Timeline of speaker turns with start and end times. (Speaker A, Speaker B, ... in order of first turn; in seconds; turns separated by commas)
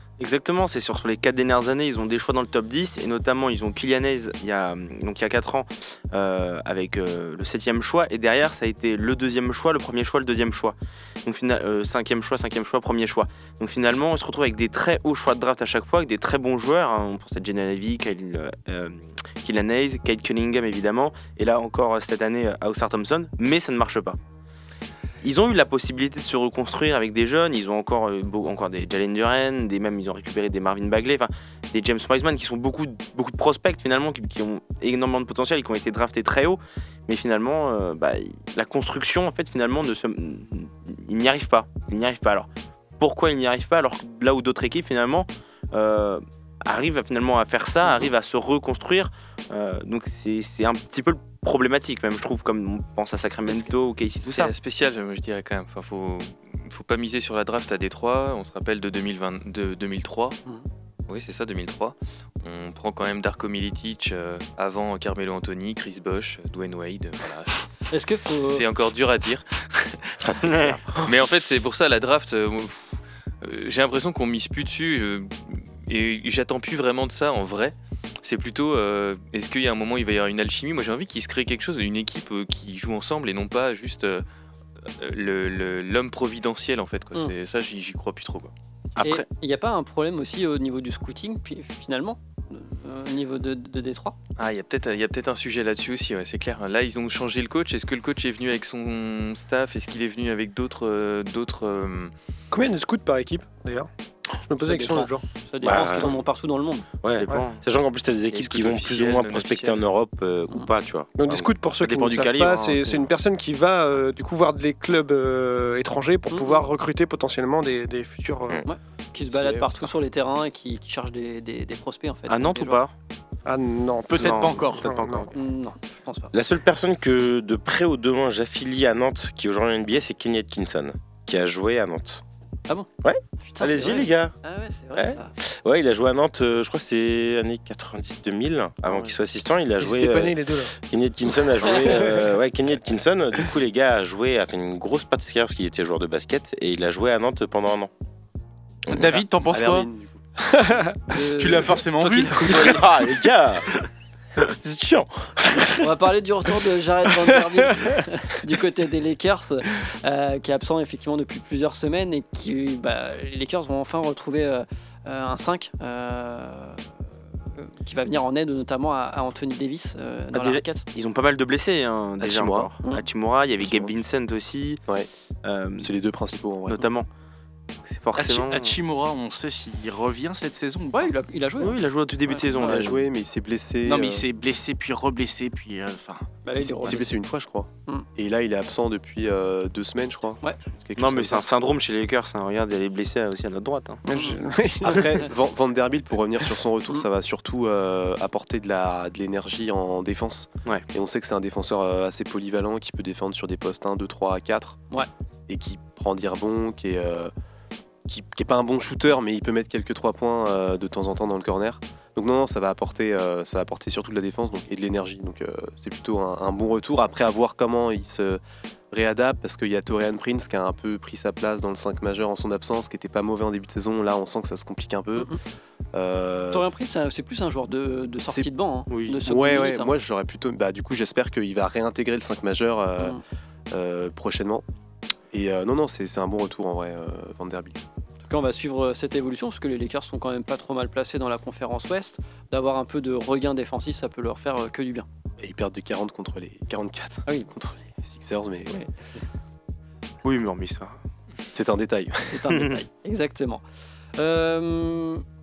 Speaker A: 0.2-24.2, Speaker A: 25.2-54.5, Speaker B: 54.2-60.4, Speaker B: 61.1-67.7, Speaker C: 67.9-68.6, Speaker B: 68.3-70.1, Speaker D: 70.2-71.1, Speaker A: 70.4-70.8, Speaker B: 71.0-84.2, Speaker B: 85.0-88.5, Speaker A: 89.0-89.2, Speaker C: 89.0-94.2, Speaker B: 94.4-102.1, Speaker E: 102.5-105.2, Speaker C: 104.7-106.8, Speaker D: 105.6-106.2, Speaker D: 107.0-111.5, Speaker A: 107.1-107.6, Speaker B: 108.3-109.8, Speaker E: 111.2-118.6, Speaker A: 111.8-113.1, Speaker C: 116.3-116.6, Speaker C: 118.6-122.8, Speaker F: 119.3-119.8, Speaker A: 122.3-122.9, Speaker E: 123.5-125.3, Speaker G: 124.1-124.9, Speaker A: 124.1-125.3, Speaker C: 125.3-126.3, Speaker D: 126.3-132.2, Speaker D: 133.0-134.3, Speaker C: 133.4-135.3, Speaker D: 134.9-147.9, Speaker E: 139.8-140.7, Speaker D: 148.9-149.2, Speaker G: 148.9-149.9, Speaker F: 149.5-150.4, Speaker C: 151.1-152.8, Speaker G: 151.4-152.8, Speaker D: 152.4-153.7, Speaker D: 154.4-155.9, Speaker C: 155.8-166.9, Speaker C: 167.5-170.8, Speaker A: 170.3-174.8, Speaker F: 172.2-172.7, Speaker F: 173.6-173.9, Speaker A: 175.4-175.9, Speaker F: 175.8-176.8, Speaker A: 176.7-177.1, Speaker A: 177.8-178.8, Speaker G: 178.2-181.1, Speaker C: 180.9-182.9, Speaker A: 181.6-183.1, Speaker F: 182.6-184.2, Speaker G: 183.8-186.2, Speaker C: 186.4-187.2, Speaker F: 186.6-191.6, Speaker A: 190.9-194.0, Speaker E: 194.1-195.2, Speaker C: 194.1-195.2, Speaker F: 194.8-204.8, Speaker F: 205.5-207.3, Speaker F: 208.1-218.4, Speaker F: 218.9-225.3, Speaker F: 225.9-226.7, Speaker C: 226.5-229.9, Speaker A: 228.9-229.2, Speaker F: 229.2-233.2, Speaker F: 233.7-234.6, Speaker F: 235.3-237.8, Speaker C: 238.3-245.1, Speaker F: 245.4-248.8, Speaker A: 250.2-251.0, Speaker F: 251.5-252.4, Speaker C: 252.3-253.6, Speaker A: 252.5-252.8, Speaker C: 254.2-255.2